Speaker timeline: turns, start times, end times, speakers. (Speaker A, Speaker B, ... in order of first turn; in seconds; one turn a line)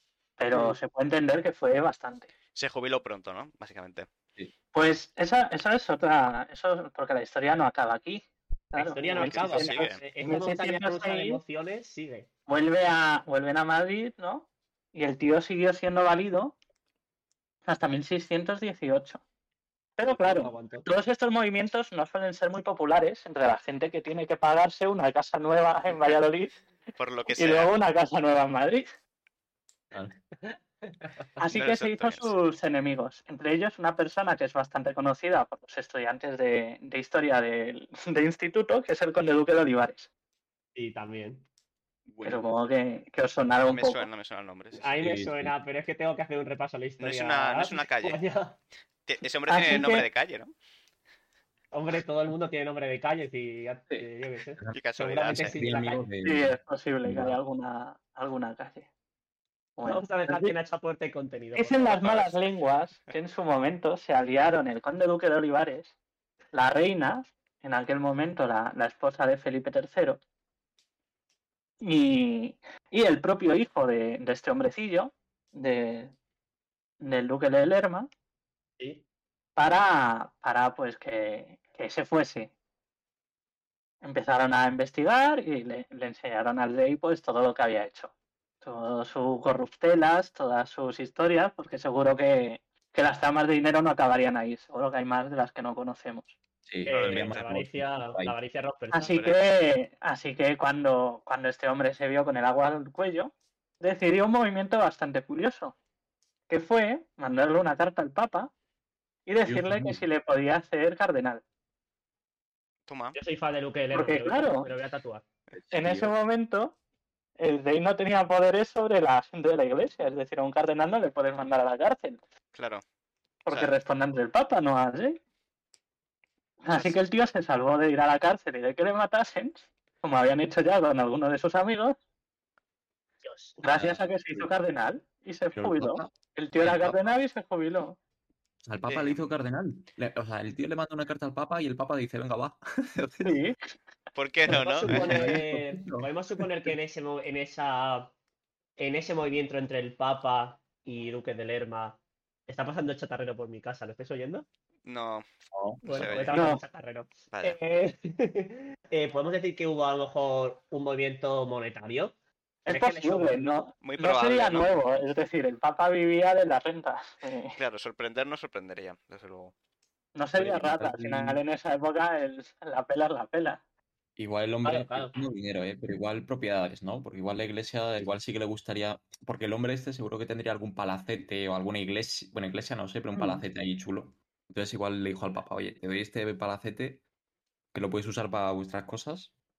Speaker A: 0.4-2.3
Speaker B: 0.5-0.8
Speaker C: 2.5-4.1
Speaker A: 4.7-11.4
Speaker B: 8.8-12.3
Speaker C: 9.2-10.0
Speaker A: 12.5-16.6
Speaker A: 17.7-19.2
Speaker A: 20.0-26.5
Speaker B: 20.1-20.9
Speaker C: 27.0-27.7
Speaker A: 27.3-28.9
Speaker B: 30.4-31.1
Speaker A: 31.4-40.1
Speaker C: 31.5-32.4
Speaker B: 40.8-41.5
Speaker D: 42.1-42.4
Speaker A: 42.2-44.1
Speaker C: 43.7-44.9
Speaker B: 44.8-48.6
Speaker D: 45.0-45.5
Speaker C: 47.0-48.2
Speaker C: 49.1-50.5
Speaker A: 49.5-50.1
Speaker B: 51.7-56.0
Speaker D: 53.9-54.8
Speaker C: 54.7-55.6
Speaker D: 55.4-57.4
Speaker A: 56.2-58.9
Speaker A: 59.8-60.5
Speaker B: 59.9-62.4
Speaker A: 61.6-65.9
Speaker A: 66.5-70.2
Speaker A: 71.8-76.1
Speaker A: 77.0-78.1
Speaker A: 79.6-82.5
Speaker A: 84.0-96.4
Speaker D: 96.7-98.3
Speaker B: 96.9-99.4
Speaker C: 96.9-97.4
Speaker A: 98.9-105.8
Speaker A: 106.5-108.5
Speaker A: 109.3-111.4
Speaker D: 109.5-110.0
Speaker C: 112.9-113.2
Speaker B: 113.2-115.2
Speaker A: 113.9-114.7
Speaker D: 115.5-116.1
Speaker A: 115.7-116.8
Speaker A: 117.4-122.2
Speaker C: 122.5-122.8
Speaker A: 123.5-125.2
Speaker C: 123.5-123.7
Speaker A: 126.7-132.0
Speaker B: 133.2-133.6
Speaker A: 133.6-138.0
Speaker D: 133.7-134.5
Speaker D: 135.6-137.0
Speaker D: 138.6-143.4
Speaker C: 138.9-139.2
Speaker A: 143.2-143.6
Speaker C: 144.2-145.3
Speaker D: 144.5-146.7
Speaker B: 144.5-148.1
Speaker B: 148.8-154.5
Speaker C: 154.8-155.3
Speaker D: 155.5-156.2
Speaker B: 155.8-162.1
Speaker C: 155.8-156.4
Speaker A: 156.3-156.6
Speaker C: 157.3-157.6
Speaker A: 162.7-167.6
Speaker B: 162.7-163.5
Speaker C: 163.8-164.8
Speaker C: 167.6-169.5
Speaker A: 170.2-173.6
Speaker D: 170.4-171.4
Speaker D: 174.2-187.0
Speaker B: 174.6-175.2
Speaker A: 183.2-183.4
Speaker D: 187.7-189.3